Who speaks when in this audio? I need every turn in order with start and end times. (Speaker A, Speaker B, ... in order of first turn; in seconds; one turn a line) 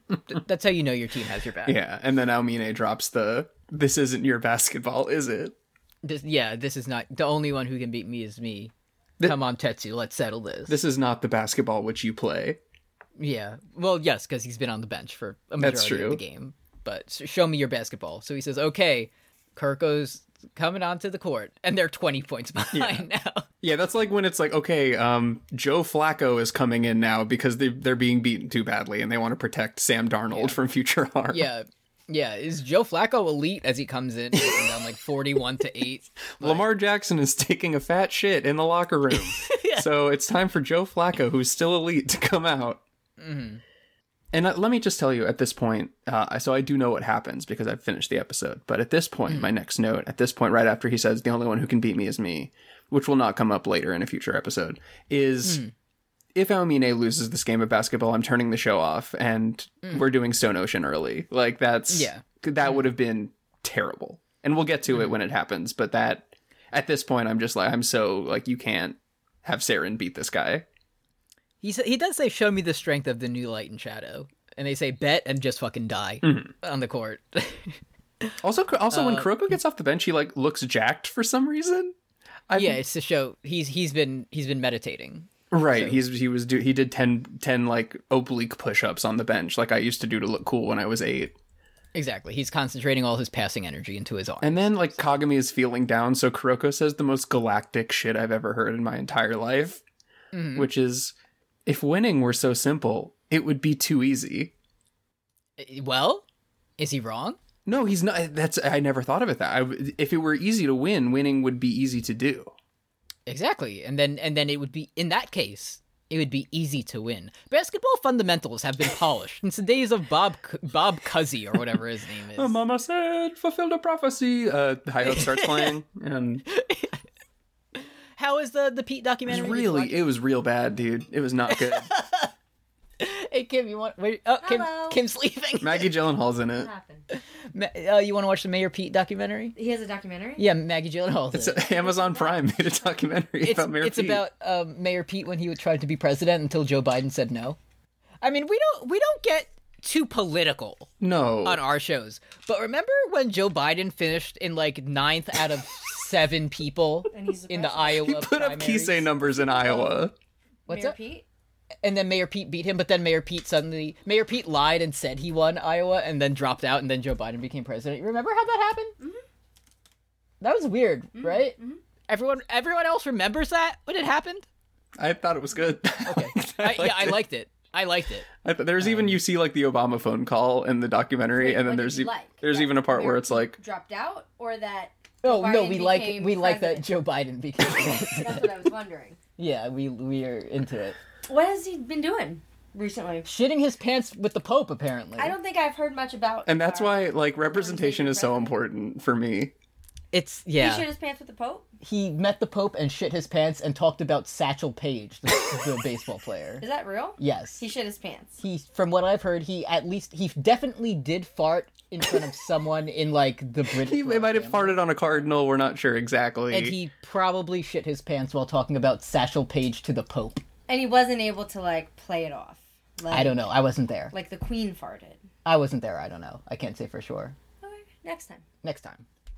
Speaker A: 0.3-1.8
Speaker B: 1.6-5.5
Speaker A: 6.0-10.8
Speaker B: 10.7-12.6
Speaker A: 13.2-23.4
Speaker B: 15.6-16.2
Speaker B: 22.7-23.1
Speaker B: 23.6-31.5
Speaker A: 30.3-30.6
Speaker A: 31.3-36.7
Speaker B: 34.3-34.7
Speaker B: 36.4-42.8
Speaker A: 39.1-39.9
Speaker A: 43.2-43.6
Speaker B: 44.3-55.6
Speaker A: 55.4-55.7
Speaker B: 56.3-70.6
Speaker A: 61.9-62.8
Speaker A: 71.6-78.3
Speaker B: 76.2-76.5
Speaker B: 78.4-81.9
Speaker A: 78.9-79.4
Speaker B: 82.5-82.8
Speaker A: 82.5-86.0
Speaker B: 85.5-91.3
Speaker A: 91.9-95.0
Speaker B: 94.4-99.8
Speaker A: 100.3-100.7
Speaker B: 100.5-101.1
Speaker B: 101.7-104.5
Speaker A: 105.6-106.2
Speaker A: 106.8-107.4
Speaker B: 107.7-112.5
Speaker A: 113.3-122.5
Speaker B: 122.3-126.4
Speaker A: 125.0-125.7
Speaker A: 126.5-127.0
Speaker A: 127.8-130.0
Speaker B: 129.3-131.9
Speaker A: 131.5-132.3
Speaker A: 133.0-135.9
Speaker C: 134.4-135.0
Speaker B: 135.6-136.7
Speaker C: 136.5-137.0
Speaker A: 137.1-139.5
Speaker C: 139.6-140.4
Speaker A: 140.4-141.6
Speaker B: 141.3-144.2
Speaker C: 141.6-142.8
Speaker A: 143.4-147.6
Speaker A: 148.2-150.9
Speaker B: 151.0-151.6
Speaker A: 151.4-159.1
Speaker C: 157.1-158.1
Speaker B: 157.9-160.1
Speaker C: 159.3-159.9
Speaker C: 160.7-161.2
Speaker A: 160.7-160.9
Speaker A: 161.8-168.9
Speaker A: 170.4-171.5
Speaker C: 171.2-171.8
Speaker A: 172.1-174.4
Speaker B: 175.0-177.2
Speaker A: 176.0-178.3
Speaker B: 178.4-183.6
Speaker A: 178.8-179.2
Speaker C: 181.3-186.9
Speaker A: 185.2-188.5
Speaker C: 188.0-189.2
Speaker A: 189.4-191.0
Speaker C: 191.3-193.3
Speaker A: 193.2-195.3
Speaker C: 195.2-198.6
Speaker B: 196.4-199.5
Speaker A: 200.1-200.8
Speaker C: 200.6-201.7
Speaker A: 201.8-206.6
Speaker C: 206.6-208.4
Speaker A: 207.2-207.6
Speaker A: 208.4-214.8
Speaker B: 213.7-216.8
Speaker A: 216.5-220.4
Speaker C: 220.7-223.4
Speaker A: 223.1-224.1
Speaker C: 224.1-225.2
Speaker A: 225.4-227.3
Speaker C: 227.6-228.4
Speaker A: 228.6-229.0